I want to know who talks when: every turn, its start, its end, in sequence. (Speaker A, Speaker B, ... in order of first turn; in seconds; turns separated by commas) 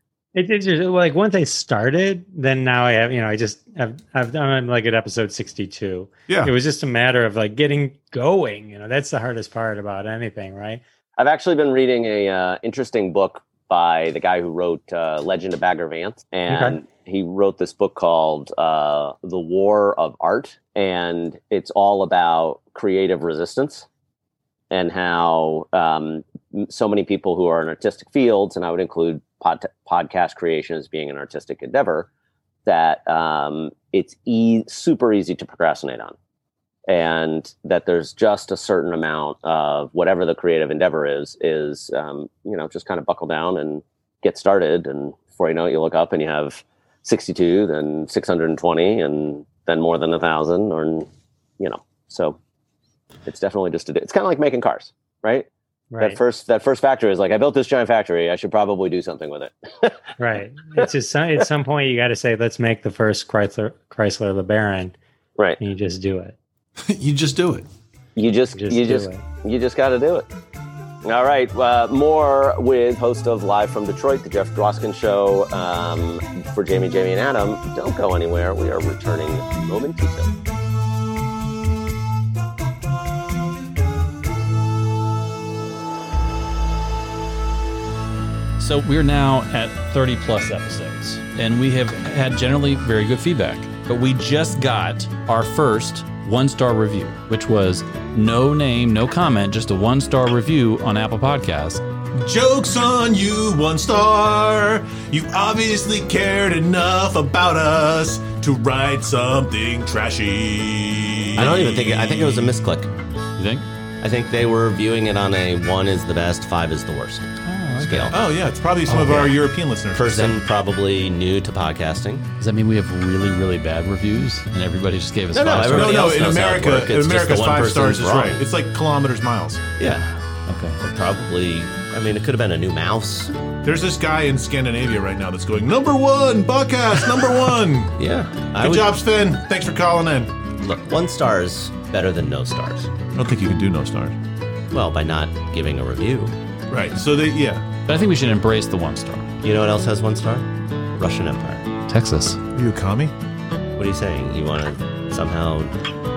Speaker A: 0.3-10.8, Speaker B: 6.3-6.5, Speaker C: 11.2-23.9, Speaker A: 16.5-16.8, Speaker C: 24.7-32.1, Speaker C: 32.7-36.1, Speaker C: 36.9-51.1, Speaker C: 51.6-52.4, Speaker C: 53.3-55.5, Speaker A: 55.9-56.2, Speaker C: 56.0-60.0, Speaker A: 60.2-65.0, Speaker A: 65.6-66.4, Speaker B: 66.8-67.7, Speaker C: 68.2-70.3, Speaker A: 68.5-69.2, Speaker C: 71.0-80.3, Speaker D: 88.6-101.8, Speaker B: 102.2-112.5, Speaker E: 111.4-112.9, Speaker D: 113.4-113.7, Speaker E: 114.0-118.2, Speaker D: 117.5-118.2, Speaker B: 118.1-120.4, Speaker E: 118.9-119.4, Speaker E: 119.9-122.3, Speaker D: 122.4-126.2, Speaker E: 125.3-128.4, Speaker B: 125.6-129.7, Speaker E: 129.8-130.1, Speaker D: 129.8-130.8, Speaker E: 130.8-133.3, Speaker B: 133.6-138.0, Speaker E: 138.0-139.0, Speaker B: 138.6-140.3, Speaker E: 140.6-142.9, Speaker B: 143.2-144.2, Speaker E: 144.7-146.3, Speaker B: 146.7-147.7, Speaker D: 147.9-149.3, Speaker E: 149.4-151.7, Speaker D: 151.9-152.4, Speaker B: 152.6-153.1, Speaker E: 153.8-155.8